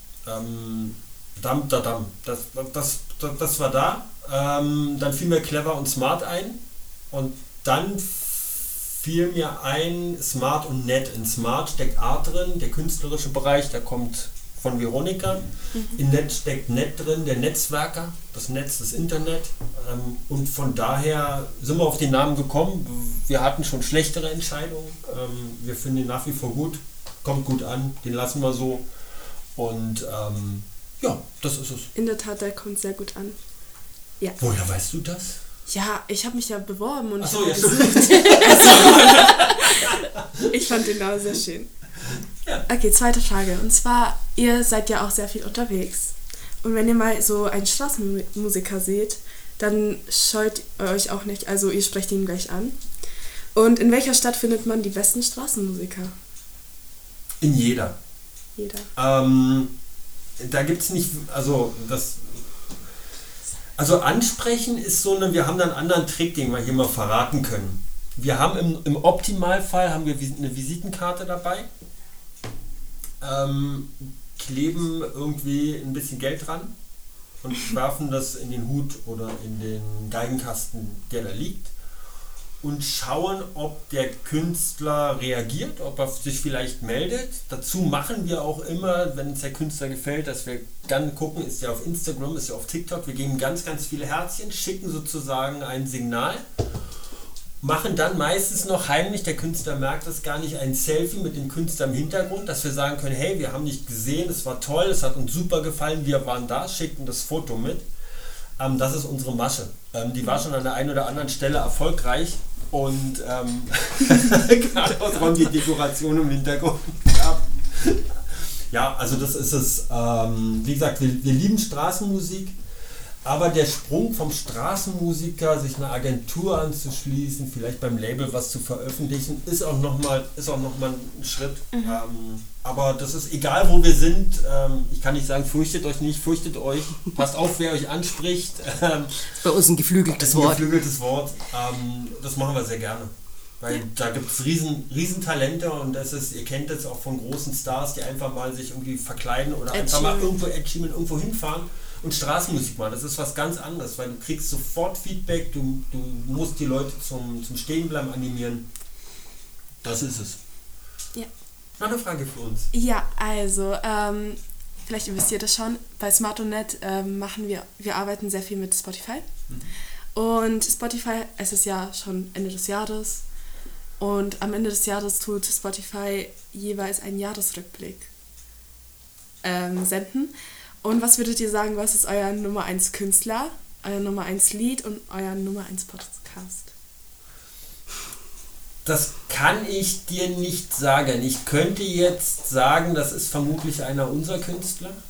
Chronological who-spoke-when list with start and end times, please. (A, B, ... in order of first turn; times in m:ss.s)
0:00.3-0:28.9 A
0:29.6-0:31.9 A
0:32.0-0:33.4 B
0:34.4-0:35.4 A
0:35.7-0:40.0 B
0:37.2-0:40.0 A
0:38.4-0:39.1 C
0:40.5-0:41.7 B
0:42.7-0:52.8 B
0:53.6-0:56.1 B
0:57.4-0:58.0 A
0:58.6-0:58.9 B
0:59.0-0:59.7 A
1:00.4-1:02.5 A
1:03.8-1:11.7 A
1:13.2-1:16.7 A
1:17.4-1:21.7 A
1:22.6-1:36.4 A
1:37.6-1:47.9 A
1:48.6-2:02.6 A
2:03.2-2:19.2 A
2:11.7-2:12.0 B
2:19.3-2:20.7 C
2:20.2-2:38.7 A
2:29.7-2:30.3 B
2:39.8-2:40.4 A
2:41.8-2:42.7 A
2:42.7-2:49.3 B
2:50.1-2:53.2 B
2:54.0-2:58.1 B
2:59.4-3:06.7 B
3:08.8-3:15.0 A